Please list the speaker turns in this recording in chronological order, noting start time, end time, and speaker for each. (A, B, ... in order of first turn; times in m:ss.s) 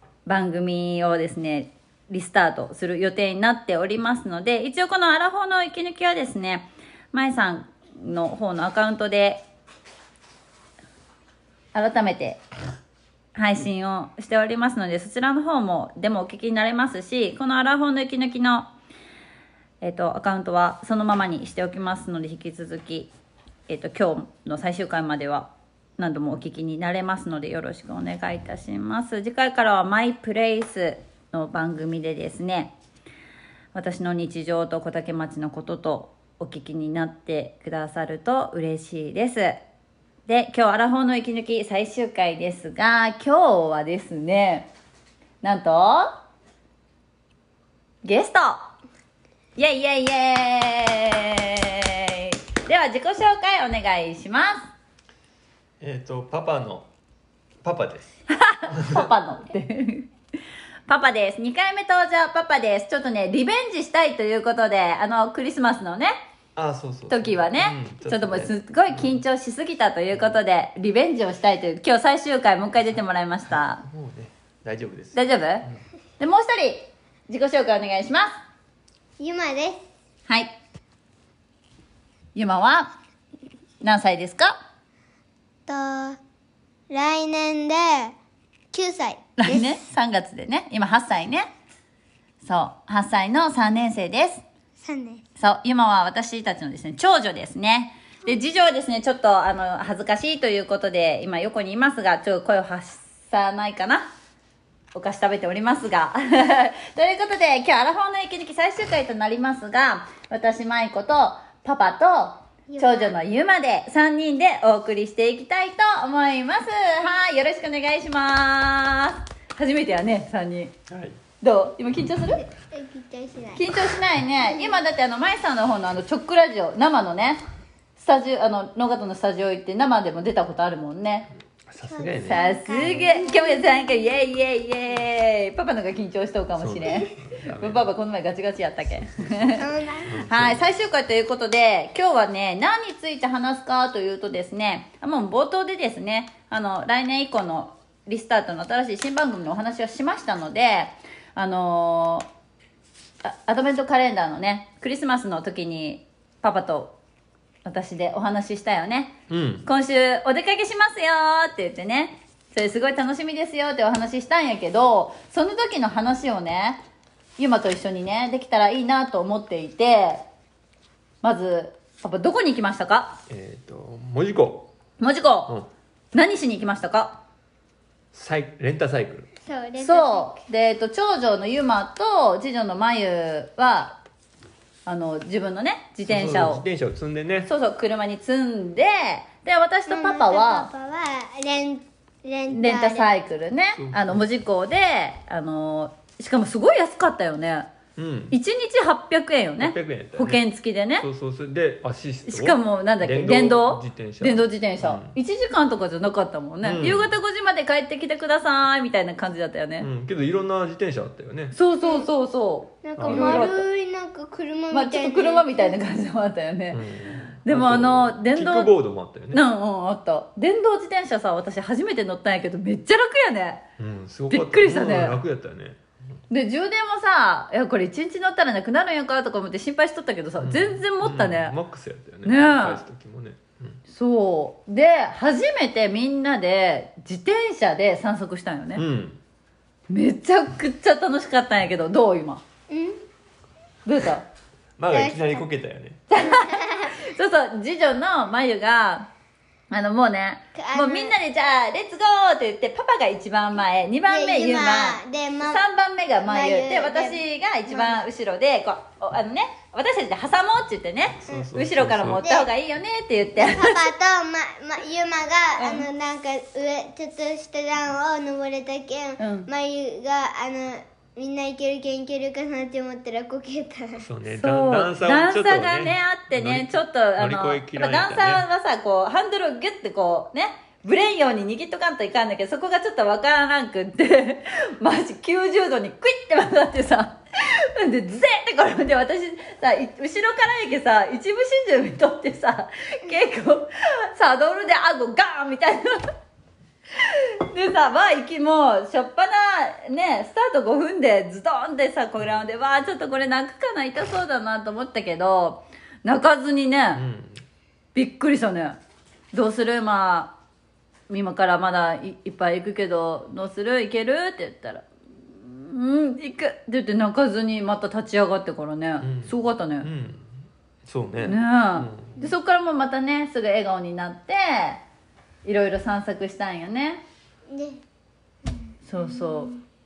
0:00.2-0:09.4 A
0:11.7-0:12.4 A
0:13.3-0:18.7 A
0:19.8-0:23.1 A
0:23.7-0:32.7 A
0:33.7-0:39.6 A
0:40.3-0:44.7 A
0:45.4-0:46.2 A
0:48.0-0:48.7 A
0:49.6-0:54.7 A
0:55.8-0:56.9 B
0:57.6-0:58.1 B
0:58.3-1:00.1 A
0:58.6-0:59.1 B
1:00.9-1:06.2 A
1:06.6-1:09.2 B
1:07.1-1:13.8 A
1:12.8-1:15.8 B
1:15.2-1:15.6 A
1:16.2-1:18.4 A
1:19.2-1:19.8 C
1:22.3-1:22.9 A
1:23.8-1:24.5 A
1:25.7-1:26.2 C
1:26.9-1:28.2 C
1:28.7-1:29.8 C
1:29.4-1:31.5 A
1:32.4-1:34.4 A
1:34.8-1:35.2 C
1:35.4-1:44.1 A
1:44.9-2:00.8 A
1:52.7-1:53.1 C
2:00.9-2:01.2 B
2:01.4-2:02.4 A
2:02.4-2:03.8 C
2:03.5-2:07.4 A
2:04.5-2:04.7 C
2:08.0-2:11.3 A
2:11.7-2:13.2 B
2:11.8-2:14.2 C
2:12.1-2:32.3 A
2:16.6-2:17.9 B
2:19.0-2:20.7 B
2:19.6-2:20.2 C
2:33.2-2:36.9 A
2:37.6-2:46.8 A
2:39.3-2:39.6 B
2:47.4-2:50.2 A
2:51.2-2:53.2 A
2:53.3-2:54.7 B
2:55.0-2:55.5 A
2:56.1-2:57.2 A
2:58.1-2:59.3 B
2:59.4-3:00.4 C
2:59.8-3:04.0 A
3:04.8-3:06.6 A
3:06.0-3:07.5 B
3:07.4-3:10.7 A
3:09.9-3:13.1 C
3:12.5-3:17.7 A
3:13.8-3:14.3 B
3:18.0-3:18.4 B
3:18.3-3:21.0 A
3:19.6-3:20.4 B
3:21.0-3:25.2 B
3:22.3-3:29.9 A
3:26.6-3:27.1 B
3:29.8-3:31.6 B
3:31.5-3:33.7 A
3:31.8-3:32.0 C
3:32.8-3:35.8 C
3:33.0-3:33.5 B
3:34.7-3:36.8 A
3:36.7-3:39.4 B
3:37.4-3:38.7 A
3:39.3-3:43.6 A
3:43.8-3:45.8 B
3:44.3-3:45.2 A
3:46.3-3:51.6 A
3:50.4-3:53.8 B
3:52.2-3:52.8 A
3:53.9-3:58.8 A
3:58.8-3:59.2 B
3:59.9-4:02.4 A
4:02.7-4:03.0 C
4:03.9-4:04.2 A
4:04.8-4:06.0 B
4:04.9-4:05.4 C
4:06.1-4:09.1 A
4:06.2-4:07.0 C
4:09.7-4:23.9 A
4:10.6-4:11.2 C
4:14.1-4:15.6 C
4:16.2-4:18.1 C
4:21.2-4:22.2 B
4:22.2-4:22.5 C
4:23.3-4:34.1 C
4:25.6-4:25.9 A
4:29.2-4:29.5 A
4:34.0-4:38.4 B
4:34.4-4:56.0 A
4:57.0-5:07.0 A
5:06.9-5:07.4 B
5:07.9-5:08.8 A
5:09.3-5:10.4 A
5:11.1-5:19.9 A
5:19.0-5:22.3 B
5:21.2-5:24.8 A
5:25.4-5:27.0 A
5:27.5-5:27.8 C
5:28.4-5:29.6 C
5:28.8-5:29.5 A